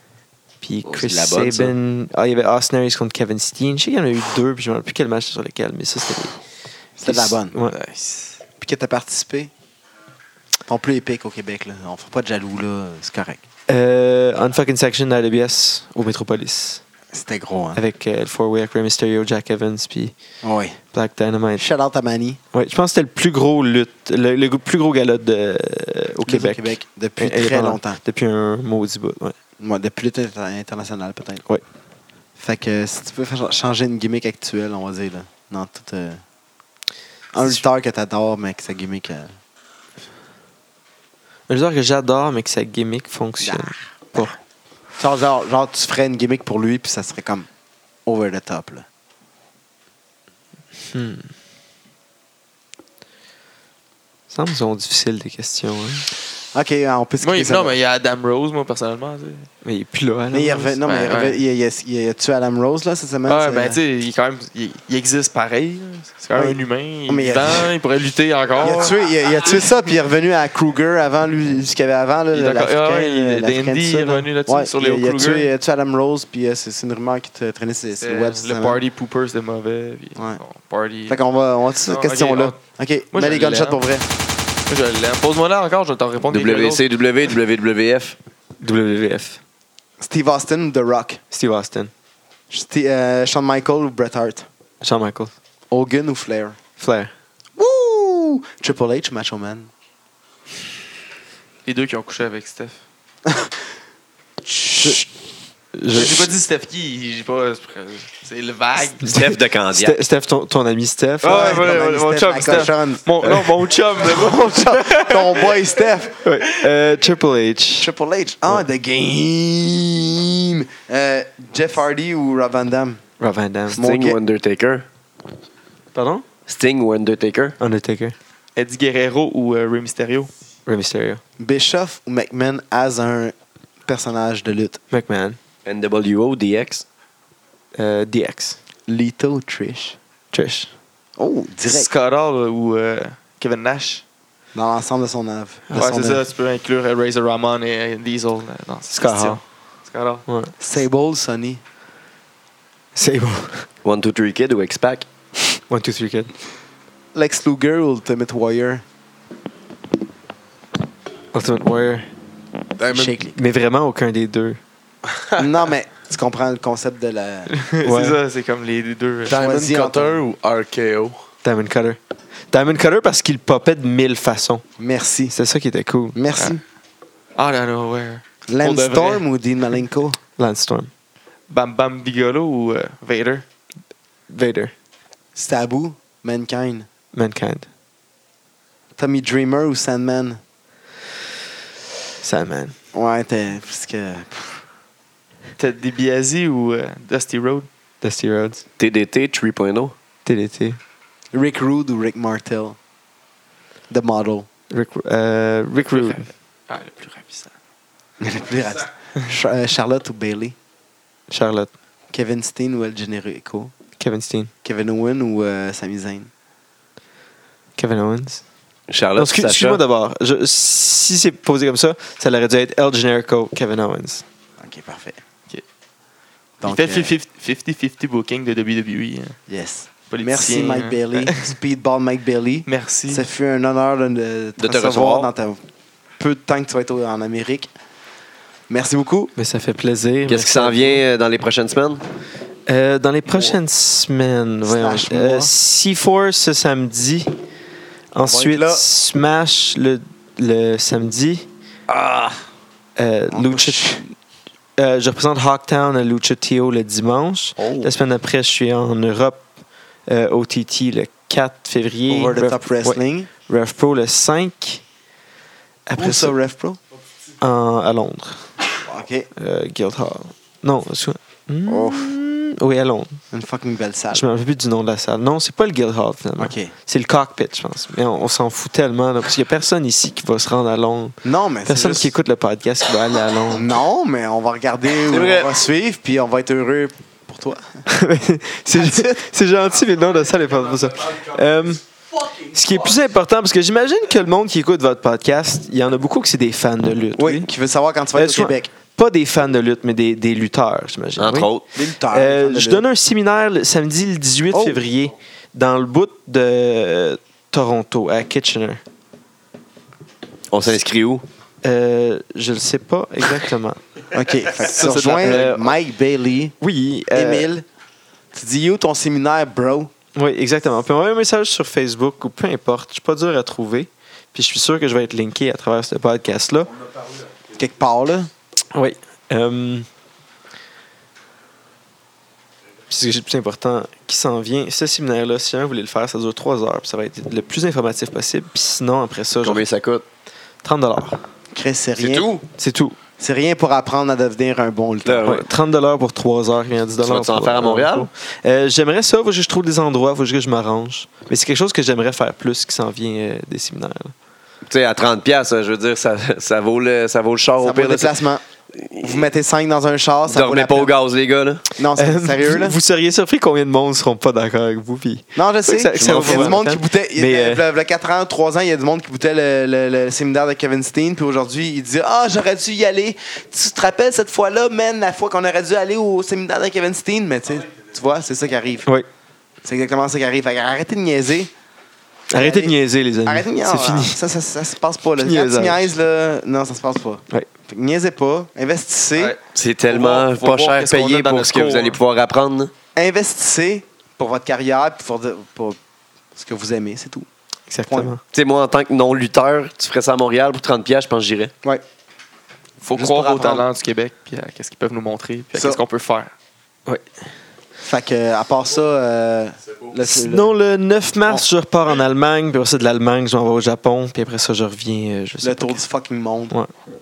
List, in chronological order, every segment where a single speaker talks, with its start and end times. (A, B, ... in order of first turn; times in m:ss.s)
0:00.6-0:06.4 A
0:00.9-0:01.7 B
0:07.0-0:07.6 C
0:07.0-0:07.8 A
0:07.7-0:08.4 D
0:08.6-0:09.5 C
0:10.7-0:13.4 C
0:13.7-0:16.8 A
0:17.1-0:17.8 C
0:17.8-0:20.1 A
0:20.4-0:20.8 C
0:20.9-0:21.7 A
0:21.6-0:22.4 C
0:22.5-0:29.4 A
0:26.2-0:28.0 C
0:29.6-0:31.4 C
0:32.4-0:36.2 C
0:37.3-0:39.3 C
0:41.5-0:44.4 A
0:43.4-0:44.2 C
0:45.0-0:47.5 C
0:48.1-0:48.9 C
0:50.9-0:51.3 A
0:54.3-0:56.1 A
0:56.5-0:57.8 C
0:57.2-0:59.5 D
0:59.6-1:00.8 A
1:00.3-1:03.8 C
1:00.8-1:01.4 D
1:03.3-1:09.0 D
1:06.3-1:07.7 C
1:08.6-1:18.8 C
1:12.3-1:15.5 D
1:18.0-1:21.2 D
1:21.1-1:24.1 C
1:21.8-1:22.6 D
1:23.1-1:23.8 D
1:24.7-1:26.8 D
1:26.3-1:28.2 B
1:28.6-1:29.4 A
1:30.0-1:31.2 C
1:31.3-1:31.9 A
1:32.5-1:34.5 C
1:34.8-1:35.3 A
1:35.7-1:36.6 C
1:36.8-1:37.1 A
1:37.6-1:39.7 C
1:41.6-1:42.8 D
1:43.3-1:43.5 C
1:44.4-1:45.1 C
1:45.7-1:46.3 A
1:45.9-1:49.1 D
1:49.0-1:51.9 A
1:49.0-1:50.0 B
1:51.2-1:55.7 D
1:51.2-1:53.4 C
1:53.2-1:53.5 A
1:54.0-1:56.2 C
1:56.2-1:57.9 A
1:57.8-2:03.0 C
2:03.2-2:03.8 A
2:03.7-2:04.9 B
2:03.7-2:04.2 C
2:06.0-2:06.2 A
2:06.5-2:07.6 B
2:07.6-2:08.2 A
2:08.6-2:10.3 D
2:10.7-2:11.2 A
2:11.4-2:13.4 C
2:13.9-2:14.8 C
2:14.9-2:15.4 A
2:15.6-2:16.8 B
2:17.7-2:18.6 A
2:18.9-2:20.0 C
2:20.3-2:20.7 A
2:21.2-2:21.9 C
2:21.7-2:24.0 D
2:24.6-2:26.2 C
2:25.7-2:26.0 A
2:25.8-2:30.2 D
2:28.9-2:29.4 A
2:30.3-2:30.5 A
2:30.6-2:31.6 C
2:33.0-2:33.7 A
2:33.8-2:35.1 B
2:35.7-2:36.3 A
2:37.1-2:38.8 C
2:41.3-2:42.1 A
2:42.8-2:43.1 E
2:42.9-2:43.4 C
2:42.9-2:44.6 A
2:45.4-2:47.5 C
2:47.7-2:49.4 D
2:47.8-2:48.2 A
2:49.3-2:51.2 E
2:49.3-2:50.2 C
2:51.4-2:52.0 A
2:52.5-2:54.6 A
2:54.8-2:55.3 C
2:55.3-2:56.2 A
2:56.1-2:56.6 C
2:56.4-2:56.6 D
2:57.4-2:59.2 D
2:58.5-3:00.2 C
3:00.4-3:00.9 A
3:01.5-3:03.4 D
3:04.3-3:04.7 A
3:05.4-3:06.9 C
3:07.1-3:07.7 A
3:09.0-3:10.4 C
3:12.2-3:12.8 A
3:12.9-3:14.6 C
3:15.6-3:17.7 D
3:18.0-3:18.6 A
3:18.8-3:19.9 B
3:20.2-3:20.8 A
3:21.3-3:22.8 C
3:23.9-3:24.5 C
3:24.7-3:26.3 A
3:25.9-3:27.5 D
3:28.2-3:30.6 C
3:31.3-3:31.7 A
3:32.1-3:33.7 C
3:34.0-3:34.5 A
3:34.6-3:36.3 C
3:37.8-3:38.4 A
3:38.9-3:39.8 B
3:39.2-3:44.2 A
3:44.6-3:45.2 C
3:46.6-3:47.1 C
3:46.6-3:49.4 D
3:49.5-3:55.6 C
3:50.1-3:51.5 D
3:52.7-3:53.2 D
3:54.6-3:55.3 B
3:56.2-3:57.7 C
3:58.7-3:59.3 C
3:59.4-4:01.0 A
4:00.3-4:02.0 B
4:02.7-4:07.3 A
4:04.7-4:05.5 C
4:08.1-4:11.4 A
4:08.2-4:08.9 C
4:13.0-4:14.1 A
4:13.3-4:14.1 C
4:14.8-4:19.5 A
4:17.6-4:17.9 C
4:20.1-4:24.8 A
4:22.1-4:23.3 C
4:25.9-4:26.4 A
4:26.0-4:26.8 C
4:27.4-4:28.4 A
4:28.8-4:29.3 C
4:29.4-4:33.2 A
4:31.7-4:32.1 C
4:33.3-4:34.3 C
4:34.1-4:43.7 A
4:36.4-4:36.7 C
4:41.2-4:42.2 C
4:43.5-4:47.8 C
4:45.1-4:45.5 B
4:47.9-4:57.5 A
4:48.7-4:49.2 C
4:57.2-4:58.7 C
4:58.2-5:01.5 A
5:01.2-5:01.6 B
5:01.7-5:02.9 C
5:02.1-5:08.8 A
5:04.5-5:04.8 C
5:10.5-5:11.2 B
5:11.6-5:13.8 A
5:14.1-5:16.6 C
5:14.6-5:15.5 D
5:14.8-5:15.7 A
5:16.6-5:17.5 A
5:17.1-5:17.6 C
5:18.3-5:19.9 C
5:20.2-5:26.7 A
5:27.5-5:28.3 C
5:28.7-5:29.9 A
5:32.9-5:39.6 A
5:39.4-5:40.0 B
5:40.6-5:41.2 A
5:41.5-5:42.4 C
5:42.0-5:42.3 B
5:42.6-5:43.0 A
5:43.2-5:45.4 C
5:45.0-5:45.4 B
5:45.2-5:54.1 A
5:47.0-5:48.1 B
5:54.7-5:58.2 B
5:57.6-5:58.4 C
5:58.8-5:59.2 B
5:59.0-6:00.9 C
6:00.3-6:01.6 B
6:01.7-6:02.8 C
6:02.0-6:07.6 A
6:05.4-6:18.9 C
6:06.0-6:06.6 B
6:19.6-6:21.5 C
6:22.3-6:24.2 A
6:22.3-6:29.4 C
6:25.2-6:25.9 A
6:29.2-6:32.0 D
6:29.5-6:32.7 B
6:33.0-6:35.8 C
6:36.3-6:37.3 C
6:37.7-6:38.2 A
6:37.9-6:38.2 C
6:38.3-6:41.5 B
6:42.8-6:46.3 D
6:42.9-6:43.7 C
6:45.6-6:45.8 C
6:47.8-6:50.5 C
6:50.0-6:55.8 A
6:55.4-6:56.6 C